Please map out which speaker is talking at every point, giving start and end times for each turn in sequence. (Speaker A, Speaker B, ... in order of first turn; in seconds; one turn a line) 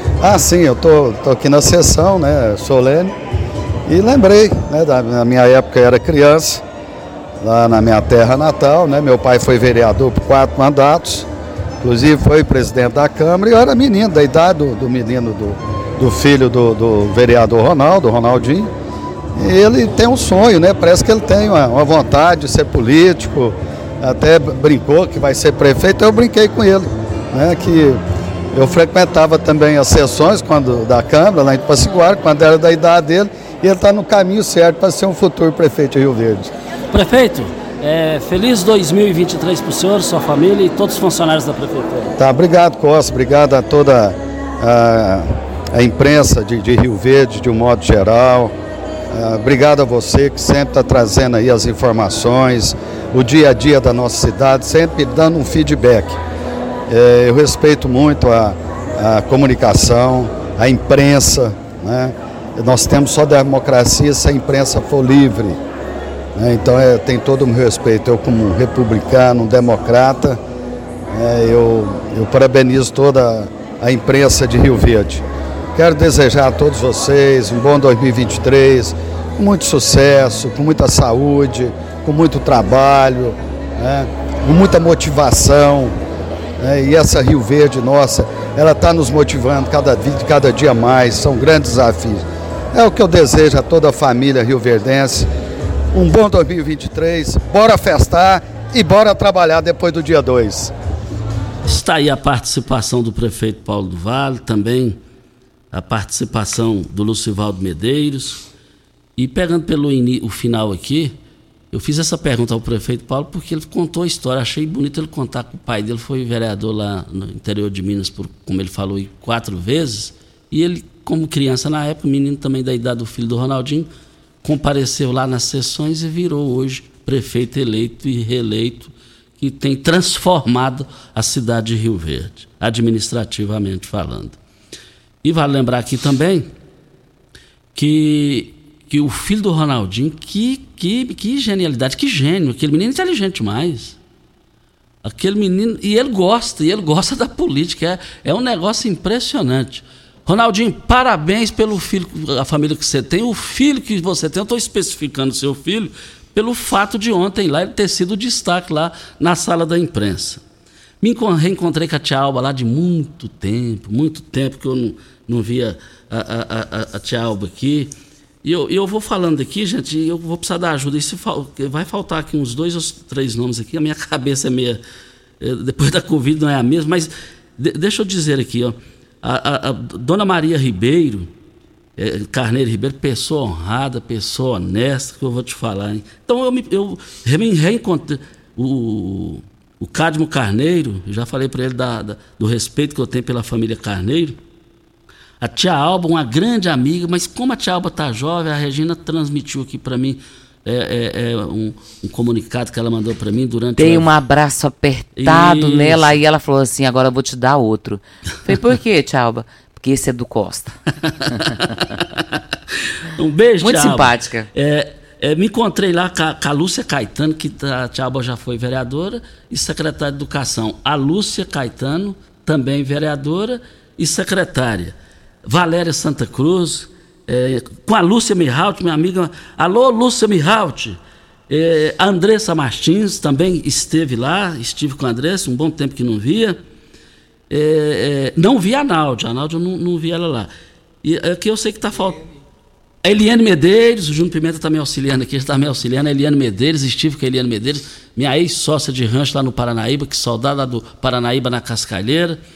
Speaker A: 0.2-3.1
Speaker A: 3.9-6.6
Speaker A: 7.4-11.3
Speaker A: 11.8-18.7
Speaker A: 19.4-28.0
Speaker A: 28.5-36.5
Speaker B: 36.9-42.1
Speaker A: 42.2-48.5
Speaker A: 49.1-56.2
Speaker A: 56.9-65.6
Speaker A: 66.3-70.4
Speaker A: 71.1-75.2
Speaker A: 75.8-85.9
Speaker A: 86.6-95.3
Speaker A: 95.9-100.7
Speaker B: 101.6-105.0
Speaker B: 105.7-108.5
Speaker B: 109.2-111.2
Speaker B: 111.7-123.9
Speaker B: 124.4-134.4
Speaker B: 135.2-136.5
Speaker B: 137.7-144.0
Speaker B: 145.0-160.4
Speaker B: 161.0-167.9
Speaker B: 168.4-174.8
Speaker B: 175.4-181.3
Speaker B: 182.0-194.4
Speaker B: 195.4-204.1
Speaker C: 203.8-210.8
Speaker B: 205.2-206.2
Speaker C: 211.3-211.6
Speaker B: 211.4-236.6
Speaker C: 213.6-214.5
Speaker B: 237.5-240.5
Speaker B: 241.0-242.2
Speaker B: 243.0-252.4